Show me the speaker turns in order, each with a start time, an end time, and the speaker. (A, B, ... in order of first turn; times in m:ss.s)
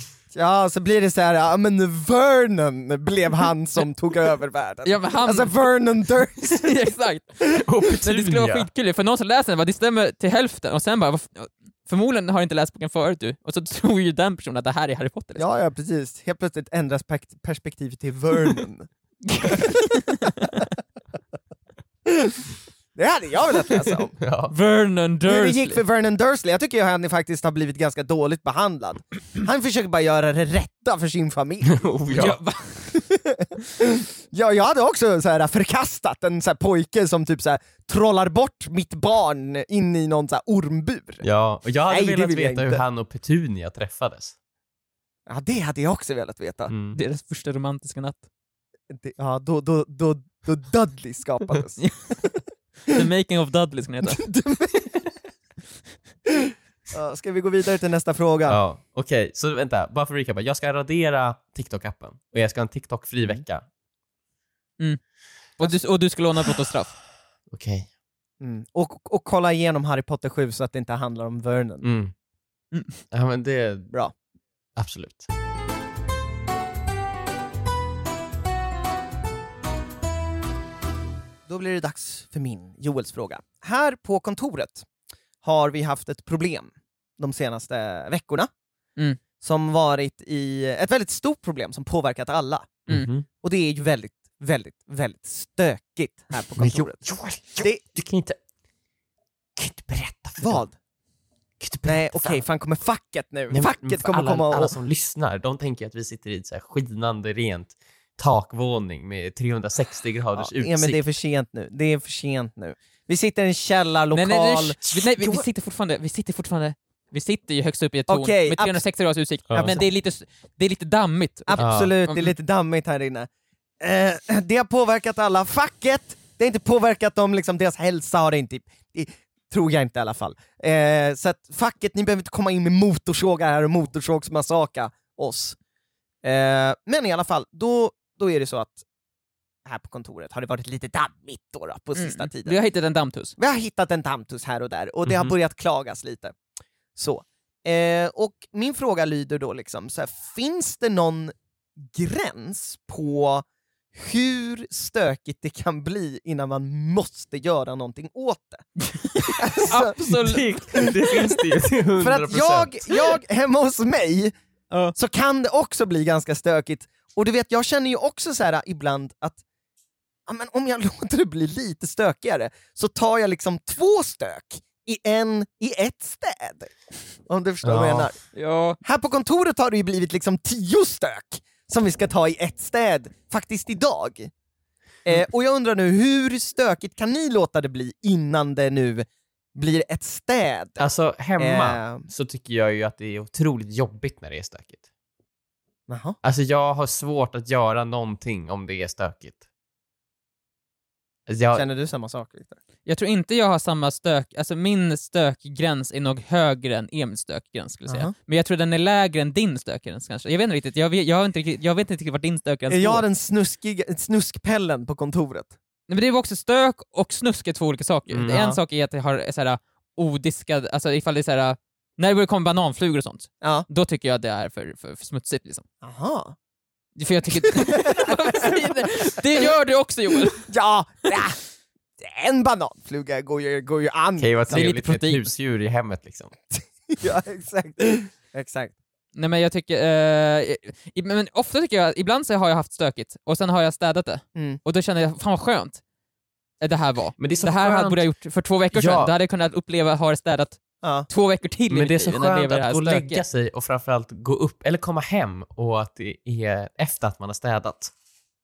0:00.3-0:06.7 A
0:04.8-0:05.5 B
0:06.4-0:07.4 B
0:07.5-0:08.7 C
0:07.9-0:15.4 B
0:15.4-0:18.9 A
0:19.3-0:20.6 B
0:19.4-0:19.7 A
0:22.1-0:22.4 A
0:23.0-0:24.1 A
0:24.2-0:24.5 C
0:24.5-0:25.8 B
0:25.3-0:31.8 A
0:31.6-0:32.4 C
0:32.1-0:32.9 B
0:32.9-0:41.2 A
0:41.2-0:44.3 C
0:41.9-0:42.8 A
0:45.3-0:46.7 A
0:46.7-0:47.0 C
0:46.9-0:48.2 B
0:48.9-0:52.4 A
0:52.9-0:54.2 B
0:54.0-0:55.0 A
0:56.3-0:58.6 A
0:58.5-1:03.6 C
1:05.6-1:06.9 B
1:07.5-1:07.9 C
1:08.4-1:11.9 A
1:11.8-1:12.1 C
1:12.7-1:13.0 B
1:13.1-1:13.9 C
1:14.8-1:15.3 C
1:21.5-1:24.8 A
1:25.4-1:28.5 A
1:29.4-1:32.8 A
1:32.9-1:33.2 C
1:33.4-1:37.0 A
1:36.6-1:38.4 C
1:37.6-1:37.8 A
1:39.6-1:40.6 C
1:40.4-1:40.7 A
1:41.6-1:42.4 C
1:41.8-1:44.7 A
1:43.5-1:51.0 C
1:50.4-1:55.4 A
1:54.1-2:02.3 B
1:58.1-1:58.8 A
1:59.5-1:59.8 C
2:01.5-2:03.3 A
2:01.6-2:01.9 C
2:03.8-2:15.6 A
2:16.2-2:18.8 A
2:19.6-2:22.6 A
2:22.0-2:23.3 B
2:23.4-2:26.3 A
2:25.0-2:25.3 C
2:27.0-2:31.3 A
2:31.8-2:38.6 A
2:39.0-2:40.5 B
2:39.4-2:40.0 A
2:40.1-2:43.0 C
2:42.0-2:44.3 A
2:44.9-2:49.4 A
2:50.3-2:56.7 A
2:57.2-2:58.2 A
2:57.6-2:58.1 C
2:58.3-2:58.8 B
2:58.8-3:04.3 A
3:05.0-3:10.8 A
3:10.8-3:14.8 C
3:11.4-3:12.0 A
3:15.9-3:16.2 A
3:16.2-3:19.4 C
3:21.3-3:21.6 C
3:21.5-3:22.6 A
3:22.8-3:33.0 B
3:27.9-3:28.1 A
3:32.7-3:35.5 A
3:35.9-3:45.6 B
3:38.1-3:38.4 C
3:38.3-3:38.6 A
3:43.4-3:43.6 A
3:45.8-3:46.4 A
3:47.0-3:50.5 B
3:47.3-3:48.6 A
3:50.5-3:51.4 A
3:52.0-3:54.7 A
3:54.2-3:56.3 C
3:54.5-3:55.2 B
3:56.9-3:58.7 A
3:59.1-4:05.8 B
4:04.3-4:04.6 A
4:06.6-4:13.2 B
4:07.2-4:08.0 C
4:08.7-4:09.1 C
4:10.8-4:11.1 A
4:11.7-4:17.9 C